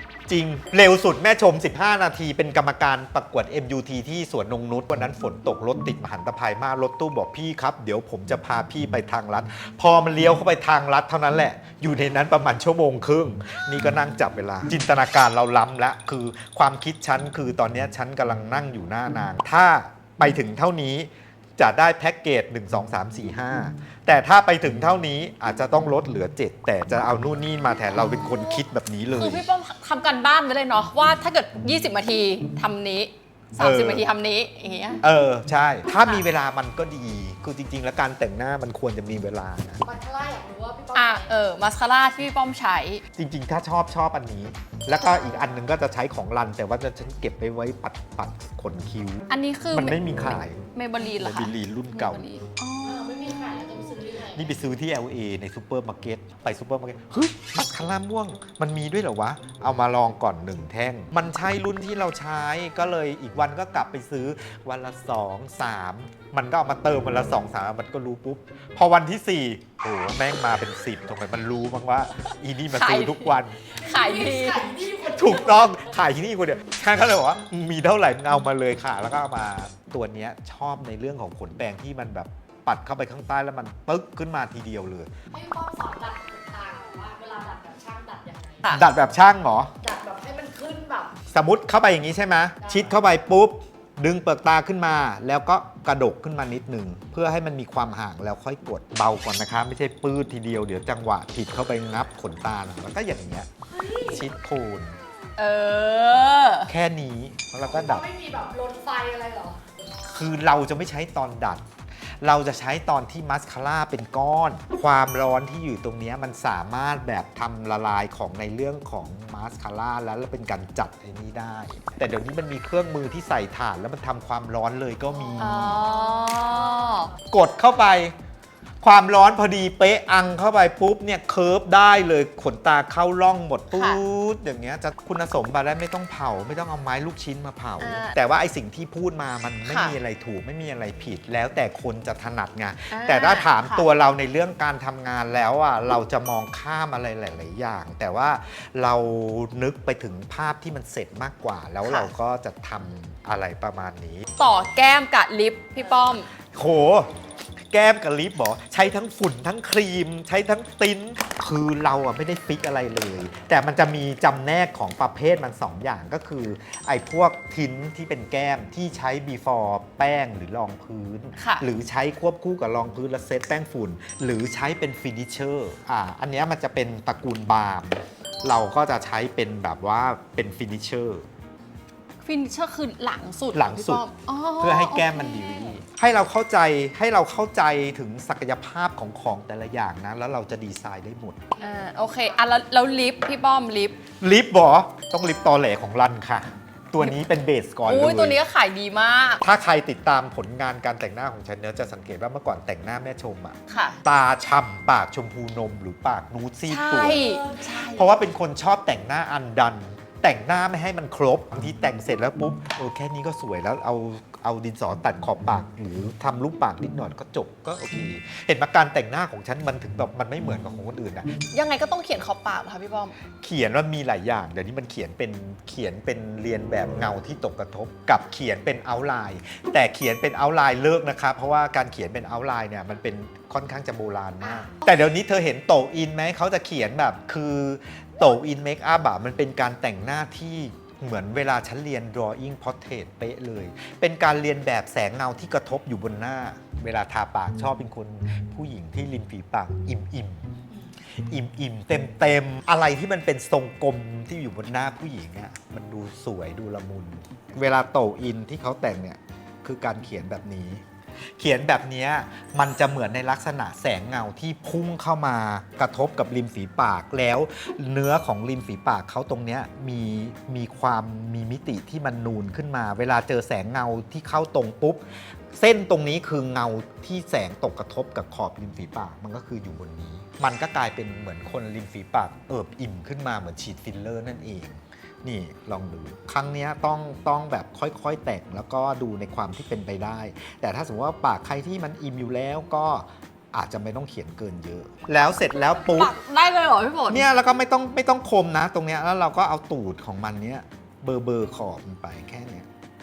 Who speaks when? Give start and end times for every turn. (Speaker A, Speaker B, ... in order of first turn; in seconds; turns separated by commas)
Speaker A: 0.3-29.4, Speaker B: 28.2-28.6, Speaker B: 29.1-35.0, Speaker A: 33.6-34.0, Speaker A: 35.0-39.8, Speaker B: 36.0-36.2, Speaker C: 39.8-41.3, Speaker B: 40.9-43.0, Speaker A: 43.2-52.2, Speaker B: 49.3-53.3, Speaker C: 52.8-54.6, Speaker A: 54.3-73.6, Speaker B: 72.7-74.6, Speaker C: 73.8-76.0, Speaker A: 75.1-85.1, Speaker C: 85.3-88.7, Speaker A: 88.7-89.7, Speaker C: 89.8-91.1, Speaker A: 91.3-103.5, Speaker C: 92.6-92.9, Speaker C: 103.7-104.2, Speaker A: 104.0-105.0, Speaker B: 105.4-106.7, Speaker A: 106.7-108.0, Speaker C: 107.6-109.6, Speaker A: 110.1-111.7, Speaker A: 112.2-125.8, Speaker C: 125.2-127.2, Speaker B: 125.4-127.1, Speaker A: 127.3-128.1, Speaker A: 128.8-154.2, Speaker B: 133.7-134.0, Speaker B: 137.8-138.2, Speaker B: 139.7-139.9, Speaker B: 142.9-143.8, Speaker B: 151.8-152.1, Speaker B: 154.4-156.3, Speaker A: 156.5-157.1, Speaker A: 157.7-181.2, Speaker B: 171.4-171.7, Speaker B: 182.2-185.8, Speaker A: 183.5-184.0, Speaker A: 184.6-191.5, Speaker C: 191.6-192.4, Speaker B: 191.6-194.0, Speaker A: 194.2-198.4, Speaker B: 197.9-199.4, Speaker A: 199.4-207.2, Speaker B: 203.7-204.0, Speaker B: 206.7-208.0, Speaker C: 207.0-207.6, Speaker A: 207.9-221.3, Speaker B: 221.5-223.2, Speaker A: 223.4-250.5, Speaker A: 251.2-260.8, Speaker A: 261.4-296.1, Speaker B: 295.8-297.2, Speaker A: 297.1-302.7